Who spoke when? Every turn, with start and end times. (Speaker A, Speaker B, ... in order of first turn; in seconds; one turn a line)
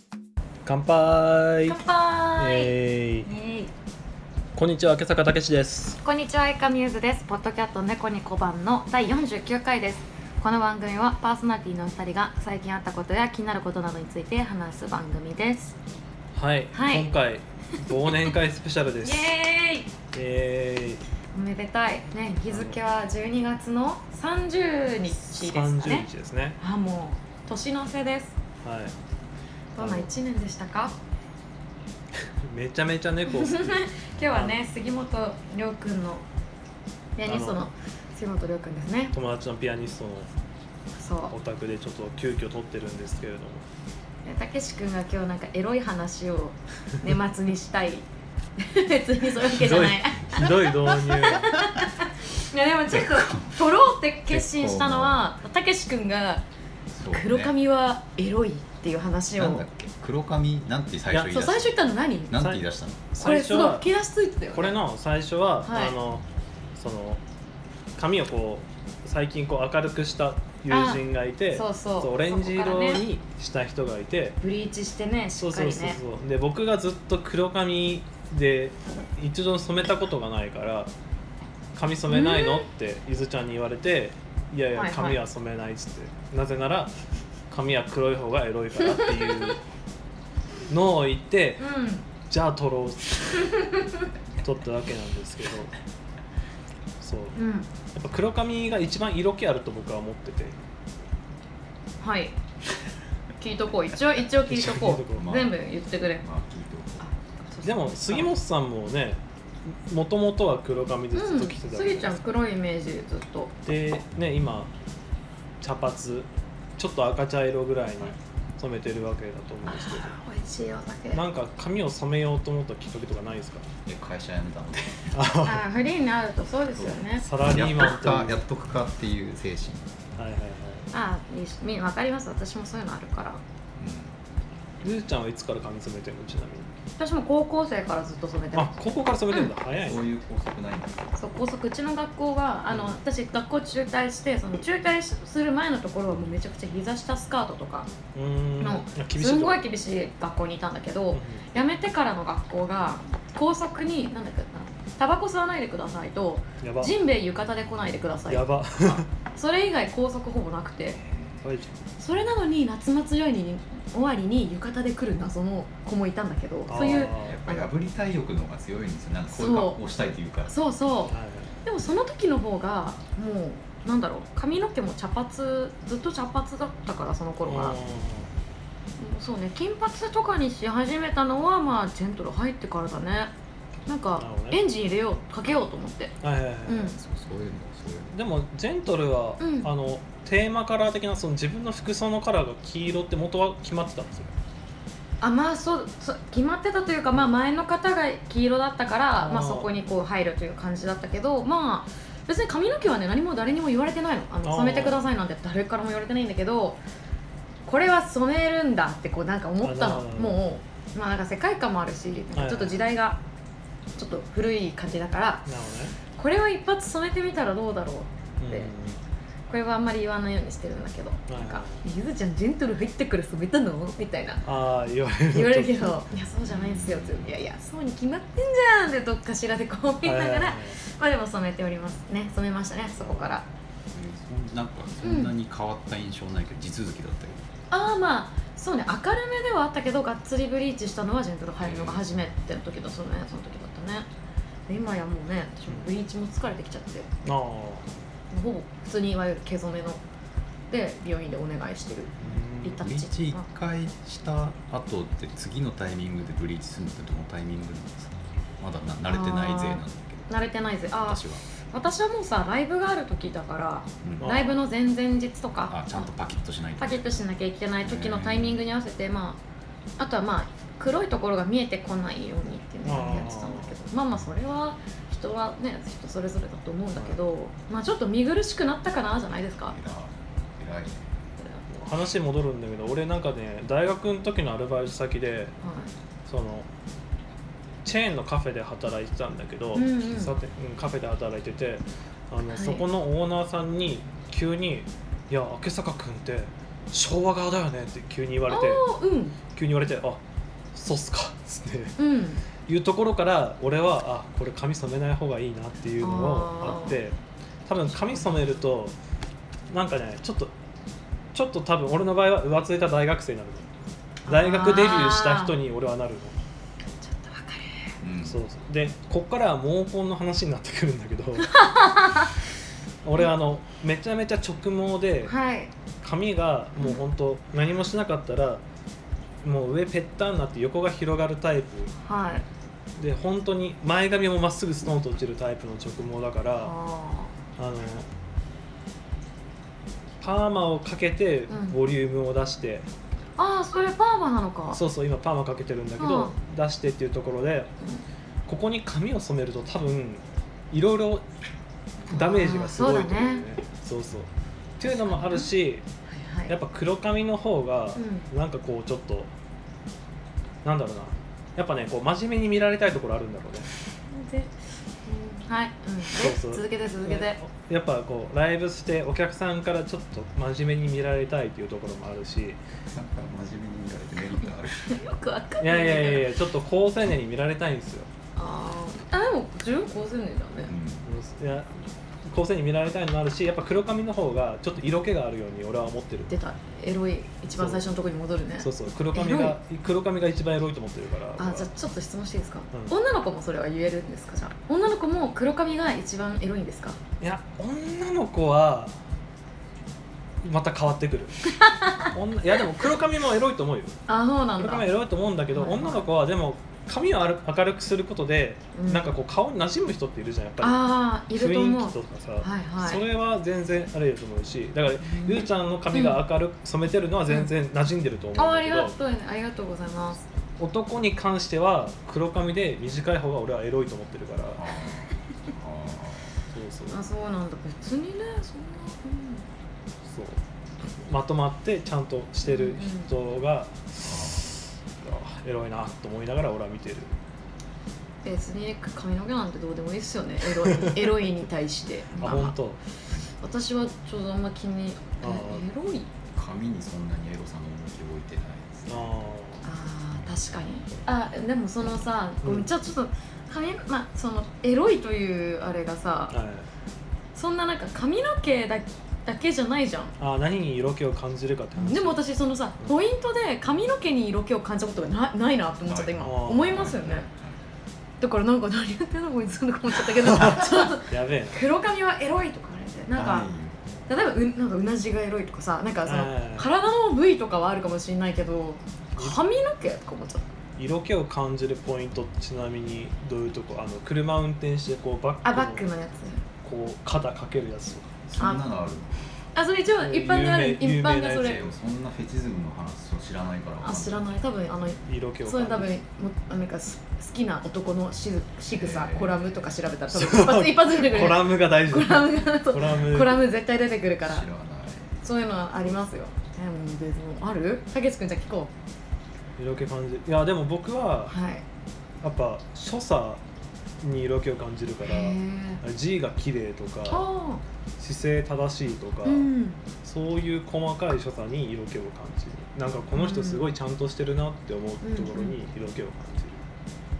Speaker A: 0.6-1.8
Speaker B: 1.7-3.7
Speaker A: 2.4-3.3
Speaker A: 4.5-6.0
Speaker B: 6.0-15.7
Speaker A: 16.4-19.3
Speaker B: 16.7-17.1
Speaker B: 19.0-19.9
Speaker A: 20.1-21.0
Speaker B: 21.3-26.1
Speaker A: 22.5-22.8
Speaker A: 25.1-26.6
Speaker B: 26.6-28.4
Speaker A: 28.6-28.9
Speaker B: 29.7-30.9
Speaker A: 29.8-30.1
Speaker A: 32.4-34.6
Speaker B: 33.3-36.2
Speaker B: 37.2-39.1
Speaker A: 37.2-37.6
Speaker A: 39.1-40.3
Speaker B: 41.0-41.3
Speaker A: 41.3-43.6
Speaker B: 44.2-48.1
Speaker B: 48.6-56.4
Speaker A: 49.5-51.6
Speaker C: 53.0-53.5
Speaker C: 54.3-55.3
Speaker C: 56.9-57.5
Speaker B: 57.1-59.6
Speaker C: 59.4-61.7
Speaker A: 61.1-61.4
Speaker B: 61.3-62.4
Speaker C: 62.3-63.1
Speaker A: 62.3-63.9
Speaker B: 63.2-64.8
Speaker A: 64.5-66.2
Speaker B: 65.6-65.9
Speaker A: 66.8-67.2
Speaker A: 68.0-74.4
Speaker B: 70.7-73.0
Speaker B: 74.4-76.0
Speaker A: 75.4-80.9
Speaker A: 81.7-86.9
Speaker B: 82.1-82.7
Speaker B: 84.7-85.2
Speaker A: 87.5-89.6
Speaker B: 89.0-89.5
Speaker A: 90.7-91.7
Speaker B: 91.6-92.0
Speaker A: 92.3-93.5
Speaker B: 93.4-94.0
Speaker A: 94.4-95.7
Speaker A: 97.0-97.4
Speaker B: 97.3-97.7
Speaker A: 97.9-100.5
Speaker B: 102.0-102.3
Speaker B: 103.4-106.2
Speaker A: 104.5-105.3
Speaker C: 105.2-105.5
Speaker C: 106.2-107.0
Speaker B: 107.0-108.3
Speaker A: 107.6-112.2
Speaker B: 111.1-113.5
Speaker A: 113.6-114.7
Speaker A: 115.6-120.1
Speaker B: 119.7-121.2
Speaker A: 121.1-123.7
Speaker C: 123.8-125.2
Speaker A: 125.1-125.6
Speaker B: 125.4-127.3
Speaker C: 126.8-129.9
Speaker A: 127.2-128.4
Speaker A: 130.2-130.9
Speaker B: 130.9-133.4
Speaker C: 133.8-134.2
Speaker A: 134.8-136.7
Speaker B: 137.0-139.5
Speaker A: 138.5-140.1
Speaker C: 139.7-141.1
Speaker B: 141.2-147.9
Speaker A: 142.7-143.0
Speaker A: 148.1-149.6
Speaker B: 148.6-158.4
Speaker A: 151.1-151.6
Speaker A: 156.6-157.0
Speaker A: 158.3-159.1
Speaker B: 159.3-161.0
Speaker C: 161.0-161.4
Speaker A: 161.4-161.8
Speaker B: 162.0-167.7
Speaker A: 166.7-167.4
Speaker C: 166.7-170.5
Speaker B: 169.3-169.8
Speaker B: 170.5-177.8
Speaker A: 171.1-171.5
Speaker A: 177.4-178.3
Speaker B: 179.0-183.3
Speaker B: 183.9-187.0
Speaker A: 184.2-184.6
Speaker A: 186.2-186.9
Speaker C: 186.9-188.1
Speaker A: 188.1-194.3
Speaker B: 189.4-189.7
Speaker B: 195.2-206.8
Speaker A: 199.2-199.7
Speaker A: 204.4-205.0
Speaker B: 207.7-213.2
Speaker A: 209.6-210.4
Speaker A: 212.3-212.8
Speaker B: 214.0-215.5
Speaker A: 215.4-215.9
Speaker B: 216.2-218.7
Speaker A: 218.4-219.0
Speaker B: 219.5-224.4
Speaker A: 221.3-221.8
Speaker A: 224.4-226.0
Speaker B: 225.3-233.4
Speaker C: 226.4-227.3
Speaker A: 230.0-230.8
Speaker C: 233.0-233.4
Speaker C: 233.9-237.4
Speaker B: 235.0-235.3
Speaker B: 237.7-244.1
Speaker C: 241.6-242.2
Speaker B: 244.7-247.1
Speaker A: 247.2-247.9
Speaker B: 248.3-250.0
Speaker B: 250.7-253.4
Speaker A: 252.2-252.9
Speaker C: 252.8-260.3
Speaker B: 259.1-266.1
Speaker C: 261.0-261.4
Speaker C: 264.0-264.3
Speaker A: 264.2-264.5
Speaker C: 265.7-267.2
Speaker B: 266.8-269.4
Speaker C: 267.8-268.6
Speaker B: 270.0-279.8
Speaker A: 272.8-273.7
Speaker C: 279.7-281.1
Speaker A: 281.7-285.5
Speaker B: 285.6-285.9
Speaker A: 286.3-286.7
Speaker A: 287.8-298.8
Speaker B: 289.7-290.4
Speaker B: 292.5-292.8
Speaker B: 298.5-299.4
Speaker A: 299.5-300.2
Speaker A: 300.7-302.0
Speaker B: 302.0-302.4
Speaker A: 302.7-307.1
Speaker B: 306.0-307.0
Speaker A: 307.7-308.9
Speaker B: 307.9-308.4
Speaker A: 309.7-310.5
Speaker A: 311.3-313.7
Speaker B: 314.3-315.5
Speaker A: 314.3-316.4
Speaker B: 317.0-317.9
Speaker C: 318.0-318.4
Speaker A: 318.2-321.6
Speaker B: 321.4-322.3
Speaker A: 323.0-325.3
Speaker B: 325.2-325.7
Speaker A: 326.0-328.6
Speaker A: 329.4-331.9
Speaker B: 332.0-332.4
Speaker A: 333.0-336.7
Speaker B: 336.6-337.3
Speaker A: 337.6-338.1
Speaker A: 340.2-342.9
Speaker B: 341.5-341.8
Speaker B: 343.4-344.8
Speaker A: 344.7-347.7
Speaker B: 346.0-346.3
Speaker A: 348.5-351.2
Speaker B: 352.1-353.4
Speaker A: 352.1-355.8
Speaker B: 354.9-355.5
Speaker B: 356.1-356.5
Speaker A: 356.5-359.3
Speaker B: 357.9-358.2
Speaker A: 360.6-363.7
Speaker B: 364.1-364.5
Speaker B: 365.0-367.4
Speaker A: 366.1-372.6
Speaker C: 372.9-375.0
Speaker B: 374.8-376.3
Speaker A: 375.6-378.1
Speaker B: 378.4-380.7
Speaker C: 380.7-381.1
Speaker A: 381.0-386.3
Speaker B: 386.3-389.6
Speaker A: 387.5-387.8
Speaker A: 388.6-391.7
Speaker B: 391.4-397.0
Speaker A: 397.2-398.9
Speaker A: 400.4-401.5
Speaker B: 401.5-402.1
Speaker A: 402.0-404.0
Speaker B: 404.1-404.9
Speaker A: 404.6-418.9
Speaker B: 405.5-406.1
Speaker B: 408.7-409.1
Speaker B: 410.6-413.0
Speaker B: 415.0-416.2
Speaker B: 418.4-420.2
Speaker A: 420.6-424.7
Speaker C: 424.6-426.4
Speaker A: 426.5-427.0
Speaker B: 426.9-429.4
Speaker A: 430.1-430.4
Speaker A: 431.0-437.1
Speaker B: 432.4-433.1
Speaker C: 434.0-434.4
Speaker B: 438.2-442.6
Speaker A: 440.7-441.0
Speaker C: 442.1-442.5
Speaker A: 442.2-442.8
Speaker B: 443.4-446.1
Speaker A: 445.2-445.6
Speaker C: 446.3-449.1
Speaker A: 448.9-449.6
Speaker B: 449.6-456.3
Speaker A: 452.4-452.7
Speaker A: 456.3-456.7
Speaker B: 457.3-460.1
Speaker A: 460.2-462.2
Speaker B: 461.8-467.3
Speaker C: 465.9-467.6
Speaker A: 466.2-466.9
Speaker B: 468.2-473.5
Speaker A: 470.4-471.6
Speaker C: 473.1-473.8
Speaker B: 474.1-480.4
Speaker A: 476.1-476.7
Speaker A: 480.8-485.8
Speaker B: 485.4-486.4
Speaker A: 486.6-488.2
Speaker C: 488.3-489.3
Speaker B: 488.4-488.6
Speaker B: 489.5-491.6
Speaker A: 490.0-491.7
Speaker C: 491.4-494.3
Speaker B: 493.8-504.4
Speaker A: 495.0-496.0
Speaker C: 498.7-499.6
Speaker A: 500.1-503.5
Speaker C: 504.2-505.2
Speaker B: 505.2-508.7
Speaker A: 509.6-511.3
Speaker B: 511.3-511.6
Speaker A: 512.2-513.4
Speaker A: 514.0-517.2
Speaker B: 515.0-515.8
Speaker B: 517.1-517.6
Speaker A: 518.0-519.5
Speaker B: 519.2-519.8
Speaker A: 520.0-526.6
Speaker B: 523.1-523.7
Speaker B: 525.0-525.5